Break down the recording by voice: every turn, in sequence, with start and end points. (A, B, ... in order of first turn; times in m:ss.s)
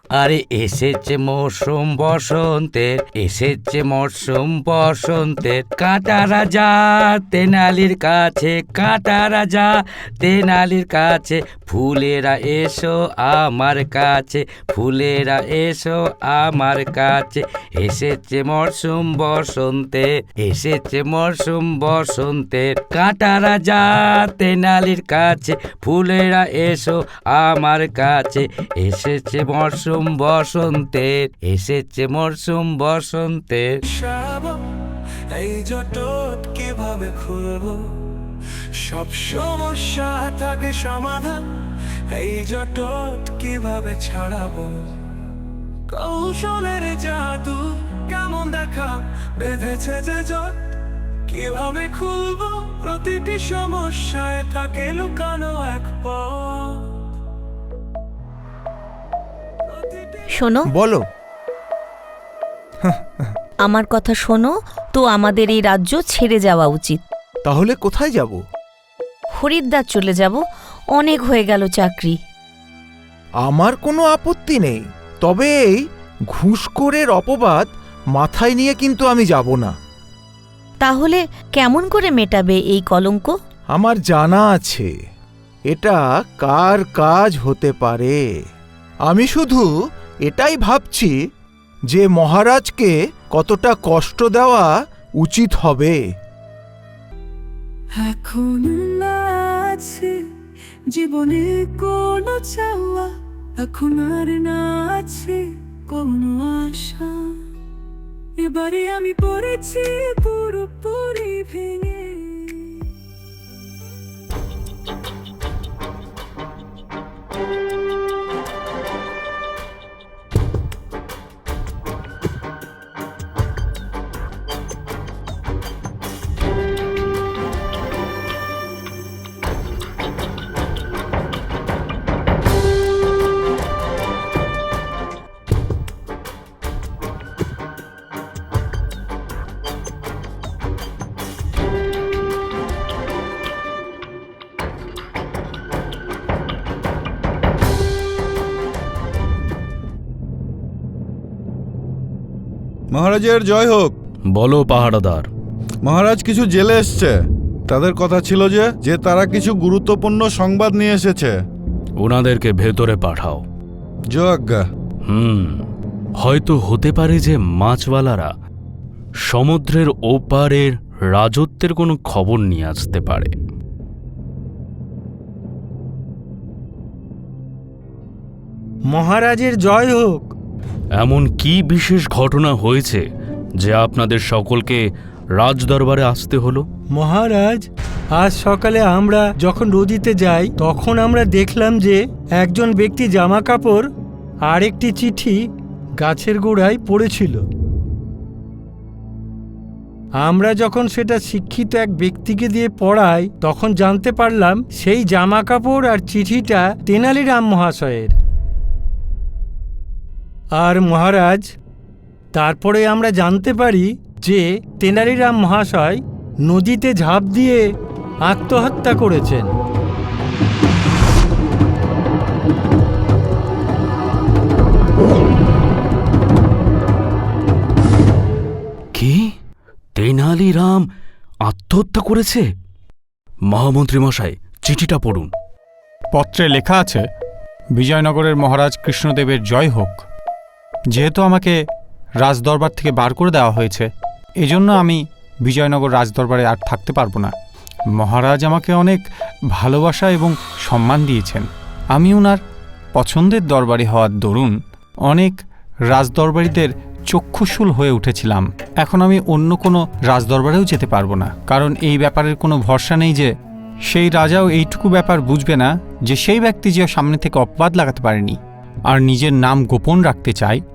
0:00.1-0:33.7 A
0:33.9-0:34.6 B
0:35.3-0:37.9 B
0:38.8-0:41.4 B
0:42.1-0:44.9 B
0:45.9-0:50.7 B
0:51.3-0:56.9 B
0:59.7-1:00.3 B
1:00.3-1:00.7 C
1:00.7-1:01.0 D
1:02.8-1:03.3 D
1:03.6-1:07.0 C
1:07.4-1:08.4 D
1:09.3-1:10.4 C
1:10.9-1:12.2 C
1:13.4-1:19.7 D
1:20.8-1:23.3 C
1:23.7-1:24.9 D
1:25.7-1:28.2 D
1:29.1-1:29.7 D
1:30.3-1:31.1 D
1:31.9-1:36.0 D
1:37.9-1:40.2 E
1:40.9-1:47.3 E
1:48.4-1:52.7 E
2:32.9-2:33.9 F
2:34.3-2:35.3 G
2:35.8-2:41.4 F
2:42.0-2:43.4 G
2:44.1-2:44.6 F
2:45.0-2:45.6 G
2:46.2-2:48.3 G
2:49.2-2:53.3 G
2:58.9-3:00.3 H
3:01.0-3:03.0 G
3:03.6-3:06.6 G
3:06.9-3:13.9 H
3:14.5-3:15.4 H
3:16.0-3:17.4 H
3:20.2-3:28.1 H
3:30.6-3:31.5 H
3:32.3-3:37.7 H
3:38.2-3:39.5 H
3:48.9-3:49.3 G
3:50.0-3:50.9 G
3:51.4-3:52.4 G
3:53.5-3:55.3 G
3:56.1-3:57.0 I
3:57.8-4:00.0 I
4:00.9-4:01.6 I
4:02.2-4:07.3 I
4:08.0-4:12.4 I
4:13.0-4:23.3 I
4:23.9-4:30.6 I